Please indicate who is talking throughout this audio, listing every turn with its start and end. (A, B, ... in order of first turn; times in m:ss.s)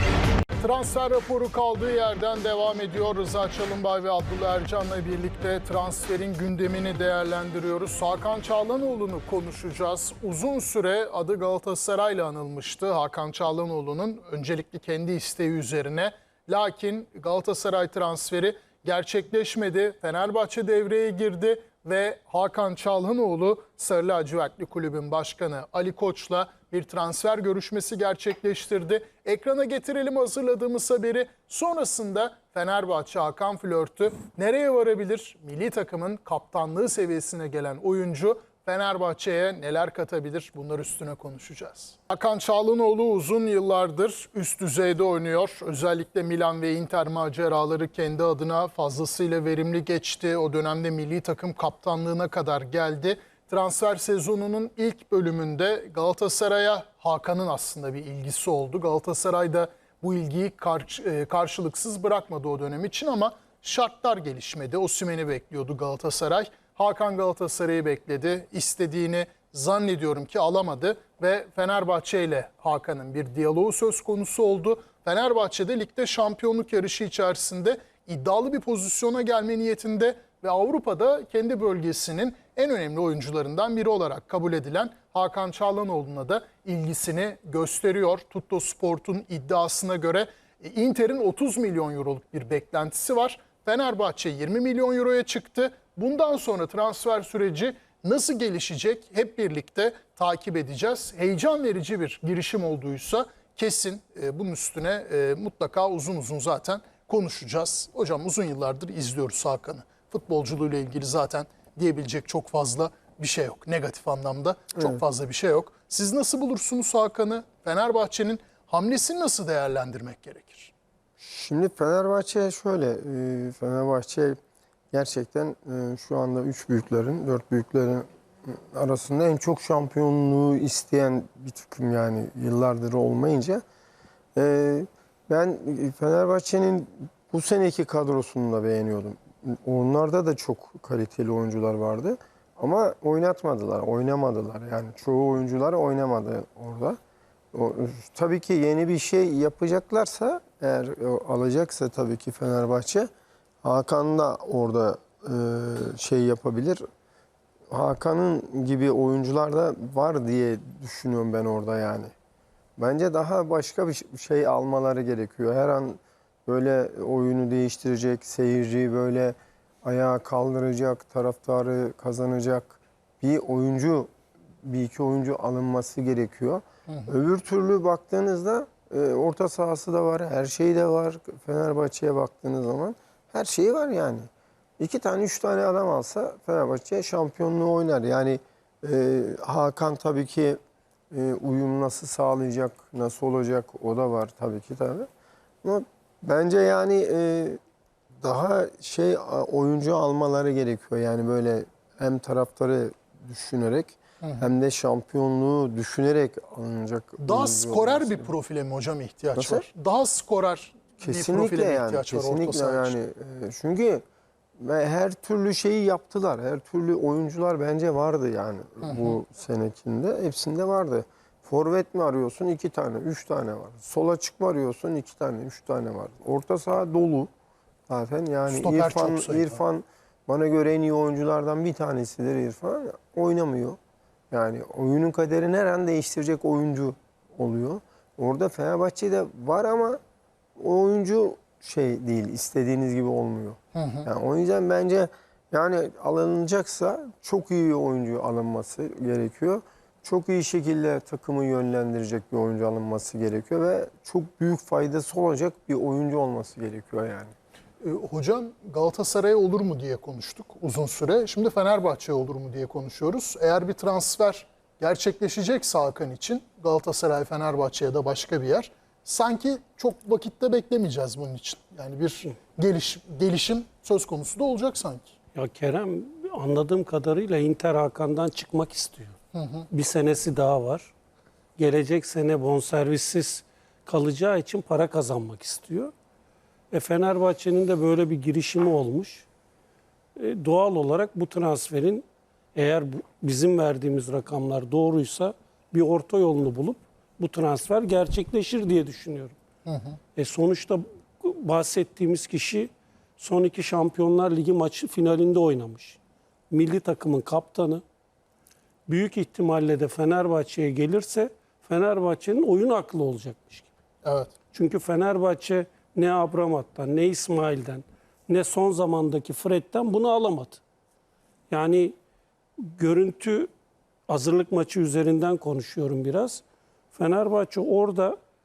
0:00.5-2:00.7 A
2:01.2-2:04.4 B
2:04.9-2:13.6 B
2:14.3-2:27.0 B
2:27.5-2:33.1 B
2:33.6-2:36.8 B
2:37.7-2:42.1 B
2:42.8-2:54.1 B
2:54.6-3:04.3 B
3:04.8-3:10.6 B
3:11.1-3:15.1 B
3:15.6-3:17.6 B
3:18.2-3:28.3 B
3:24.2-3:24.5 A
3:27.2-3:33.0 A
3:29.4-3:29.6 B
3:31.0-3:34.0 B
3:34.6-3:47.3 B
3:38.8-3:39.1 A
3:47.9-3:53.8 B
3:48.5-3:49.6 A
3:54.3-4:00.0 B
4:00.6-4:17.3 B
4:03.7-4:04.1 A
4:17.8-4:35.1 A
4:35.3-4:39.2 C
4:39.3-4:39.7 A
4:39.7-4:40.9 C
4:41.6-4:45.9 C
4:46.7-4:49.3 C
4:50.2-4:52.0 C
4:52.5-4:59.4 C
4:59.6-5:00.0 A
5:00.2-5:06.0 C
5:06.5-5:07.8 C
5:08.9-5:13.7 C
5:14.0-5:14.3 A
5:14.5-5:20.6 C
5:21.5-5:21.9 C
5:22.6-5:23.5 C
5:24.1-5:26.4 C
5:26.9-5:28.2 C